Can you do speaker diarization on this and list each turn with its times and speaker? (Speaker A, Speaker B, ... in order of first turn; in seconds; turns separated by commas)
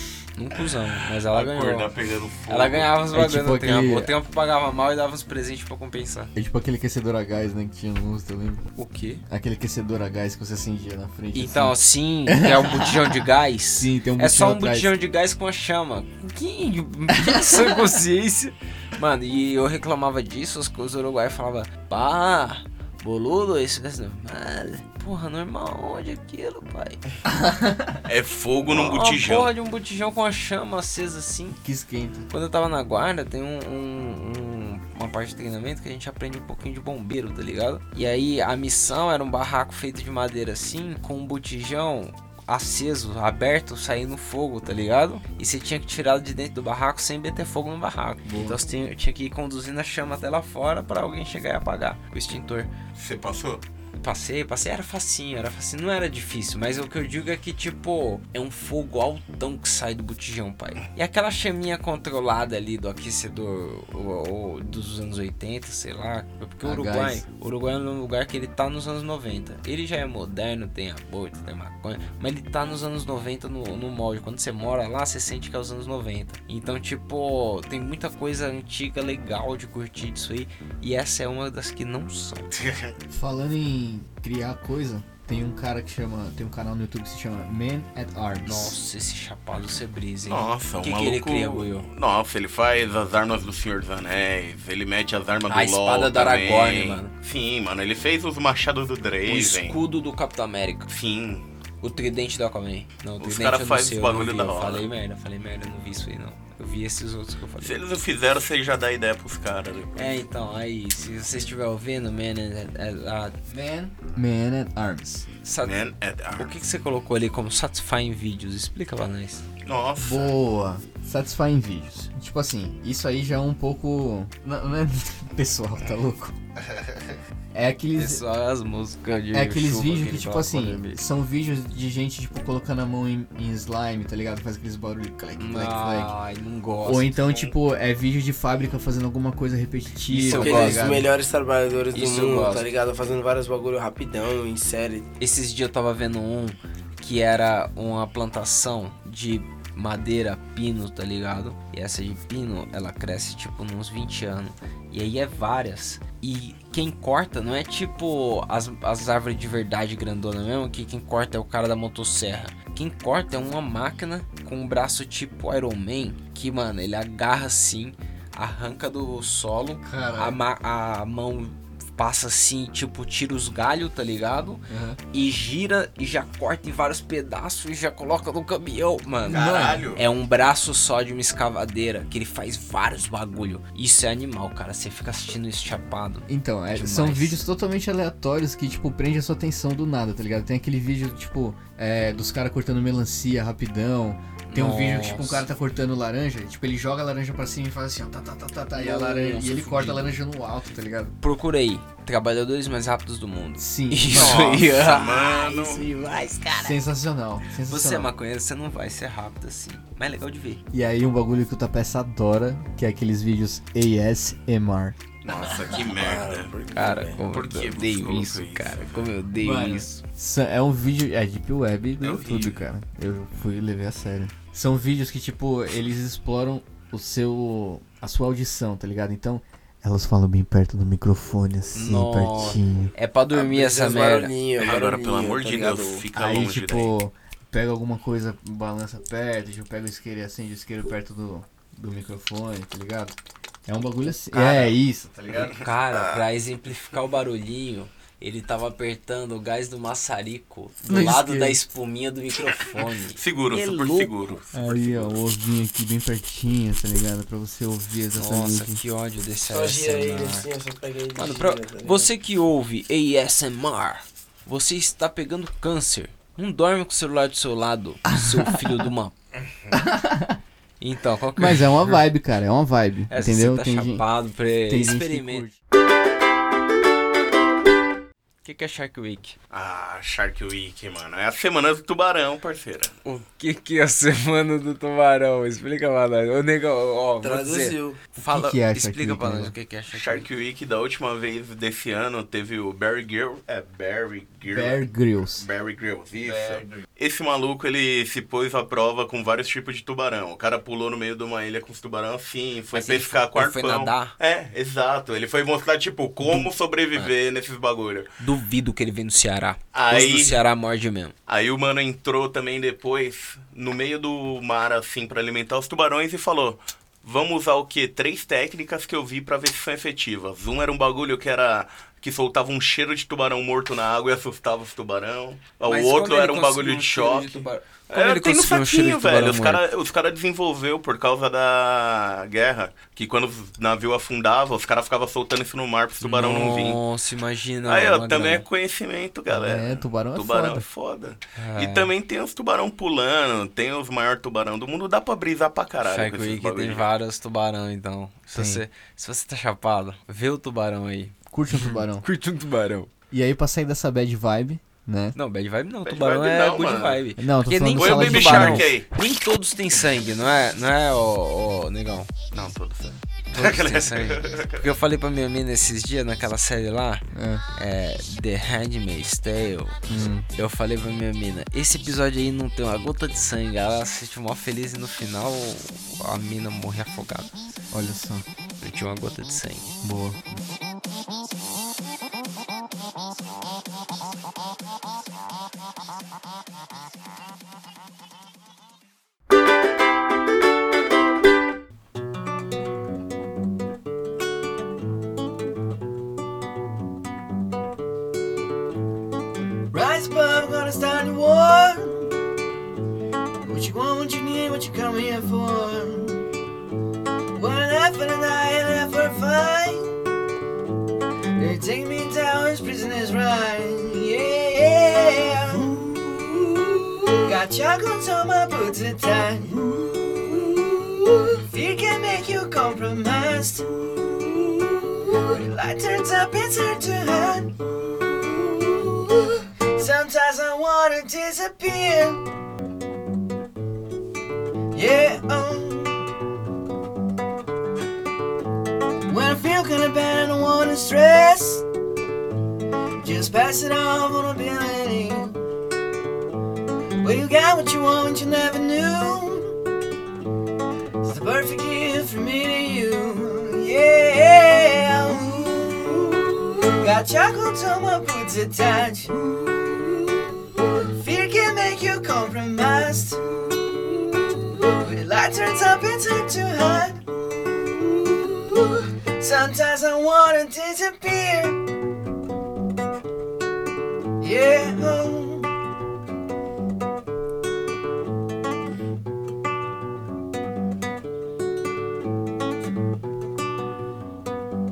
Speaker A: 0.3-1.9, Speaker B: 1.3-2.9, Speaker A: 2.5-6.3, Speaker C: 3.1-4.1, Speaker C: 6.3-8.6, Speaker A: 8.8-9.2, Speaker C: 9.3-11.8, Speaker A: 11.3-27.0, Speaker C: 12.3-13.2, Speaker C: 13.7-14.9, Speaker C: 17.1-17.9, Speaker C: 27.2-28.0, Speaker B: 28.1-29.5, Speaker A: 28.7-31.6, Speaker C: 31.6-32.3, Speaker A: 32.3-52.7, Speaker C: 48.2-48.6, Speaker B: 53.0-53.6, Speaker A: 54.0-82.5, Speaker C: 66.6-67.2, Speaker B: 82.5-82.9, Speaker C: 83.1-88.8, Speaker A: 88.4-91.9, Speaker B: 90.2-99.8, Speaker A: 95.5-97.1, Speaker A: 99.2-100.9, Speaker B: 100.9-101.4, Speaker A: 101.8-107.8, Speaker B: 103.2-104.9, Speaker B: 107.6-110.2, Speaker A: 110.0-113.3, Speaker C: 113.5-115.3, Speaker A: 115.4-115.8, Speaker B: 115.6-116.5, Speaker A: 116.4-119.4, Speaker B: 119.6-120.4, Speaker C: 120.0-126.3, Speaker B: 126.7-127.1, Speaker C: 127.5-128.2, Speaker A: 128.0-131.0, Speaker C: 129.3-136.1, Speaker A: 135.4-137.2, Speaker C: 136.8-141.1, Speaker B: 137.3-137.5, Speaker A: 140.1-141.0, Speaker D: 140.3-145.1, Speaker A: 141.9-142.6, Speaker A: 145.2-187.4, Speaker C: 169.8-170.4, Speaker C: 174.7-175.0, Speaker B: 179.2-180.0, Speaker C: 179.3-179.9, Speaker C: 186.3-201.1, Speaker A: 194.5-195.4, Speaker A: 198.7-200.2, Speaker A: 201.2-206.8, Speaker C: 203.6-204.8, Speaker B: 204.1-205.9, Speaker C: 206.5-208.1, Speaker A: 207.7-210.6, Speaker C: 210.7-215.5, Speaker B: 215.2-216.5, Speaker D: 215.4-217.2, Speaker A: 216.7-220.0, Speaker B: 217.3-219.1, Speaker C: 219.4-232.9, Speaker B: 222.0-222.6, Speaker A: 231.7-234.3, Speaker D: 233.3-236.1, Speaker B: 234.6-236.9, Speaker C: 236.1-243.1, Speaker C: 243.7-245.6, Speaker B: 244.3-244.7, Speaker B: 245.3-246.2, Speaker A: 245.3-254.1, Speaker C: 250.8-251.6, Speaker B: 252.6-255.2, Speaker C: 254.5-258.8, Speaker A: 258.1-260.5, Speaker D: 259.5-262.1, Speaker A: 261.1-269.1, Speaker C: 268.1-268.9, Speaker C: 269.7-270.4, Speaker A: 270.8-272.0, Speaker C: 271.4-274.0, Speaker A: 273.1-275.5, Speaker C: 274.7-275.6, Speaker A: 278.4-279.4, Speaker B: 279.5-282.9, Speaker A: 283.0-290.2, Speaker D: 287.2-288.0, Speaker C: 288.2-289.5, Speaker B: 289.9-294.8, Speaker C: 294.4-295.5, Speaker B: 295.4-308.1, Speaker A: 302.7-304.1, Speaker A: 306.2-307.1, Speaker A: 308.2-311.1, Speaker B: 309.7-310.4, Speaker B: 311.3-336.8, Speaker A: 325.6-329.6, Speaker A: 336.0-338.4, Speaker B: 337.6-346.9, Speaker C: 339.3-340.6, Speaker A: 341.4-341.9, Speaker A: 345.8-352.9, Speaker C: 348.3-348.6, Speaker C: 351.3-352.0, Speaker C: 353.1-355.1, Speaker A: 355.1-362.1, Speaker B: 355.9-357.0, Speaker C: 357.2-358.7, Speaker B: 357.8-358.9, Speaker B: 362.3-364.7, Speaker A: 363.3-367.0, Speaker C: 367.1-367.4, Speaker A: 367.6-369.8, Speaker C: 369.9-370.3, Speaker A: 370.3-377.3, Speaker C: 377.7-378.2, Speaker A: 378.6-379.8, Speaker C: 379.8-380.3, Speaker E: 399.7-402.1, Speaker E: 403.4-406.2, Speaker E: 407.3-410.0, Speaker E: 411.4-432.2, Speaker E: 434.7-436.0, Speaker E: 439.1-441.6, Speaker E: 443.0-445.4, Speaker E: 447.0-449.6, Speaker E: 451.0-471.6, Speaker E: 474.2-475.5